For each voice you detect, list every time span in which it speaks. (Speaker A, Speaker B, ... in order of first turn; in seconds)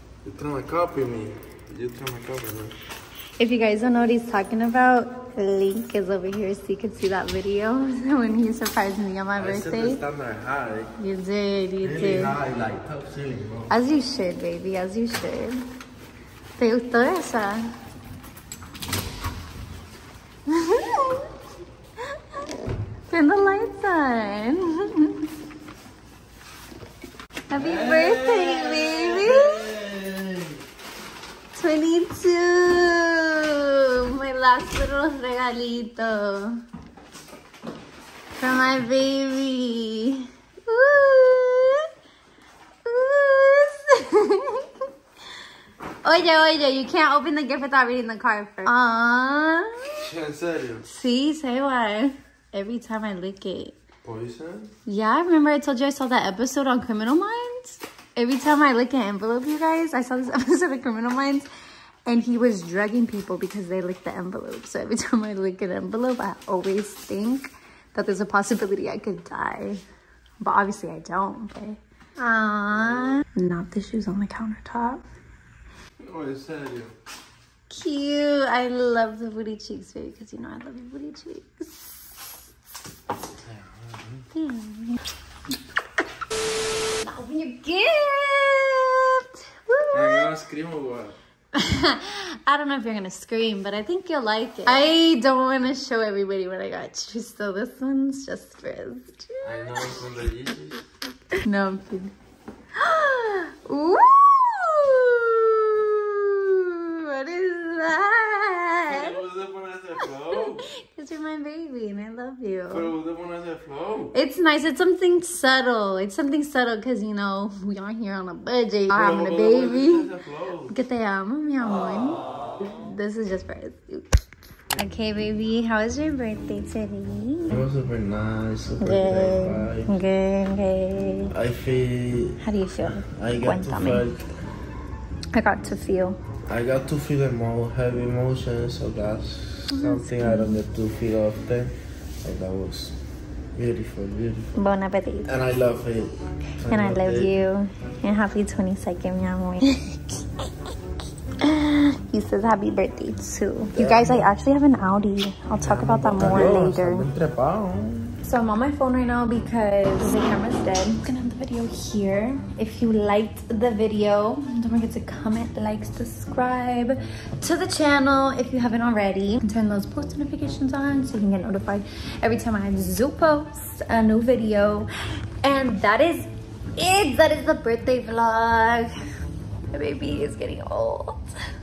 Speaker A: 0.2-2.8, 9.3-10.9, 11.8-13.7, 27.5-30.6, 50.0-50.9, 54.0-54.7, 72.7-73.2, 76.0-76.9, 83.4-84.2, 89.9-91.2, 99.4-100.8, 108.8-110.7, 112.7-114.1, 118.9-120.7, 127.5-129.9, 131.3-134.3, 136.5-143.0, 143.5-144.5, 145.3-147.3, 153.7-154.3, 155.6-158.2
Speaker B: 3.4-10.0, 11.0-12.4, 13.7-15.6, 16.6-17.7, 20.5-21.3, 22.1-22.5, 23.1-25.3, 27.5-29.7, 31.5-36.6, 38.3-41.9, 42.8-44.9, 46.0-50.1, 50.8-53.8, 54.9-61.5, 62.0-69.8, 70.4-75.0, 77.7-82.2, 84.3-85.0, 87.0-90.3, 91.5-99.9, 101.3-102.1, 102.7-109.2, 110.0-112.9, 114.1-120.1, 120.6-124.2, 124.7-127.7, 128.8-131.3, 132.4-134.1, 135.3-136.2, 139.7-140.6, 144.5-145.3, 146.6-150.7, 151.3-157.1, 158.2-174.9, 175.4-178.9, 179.7-181.3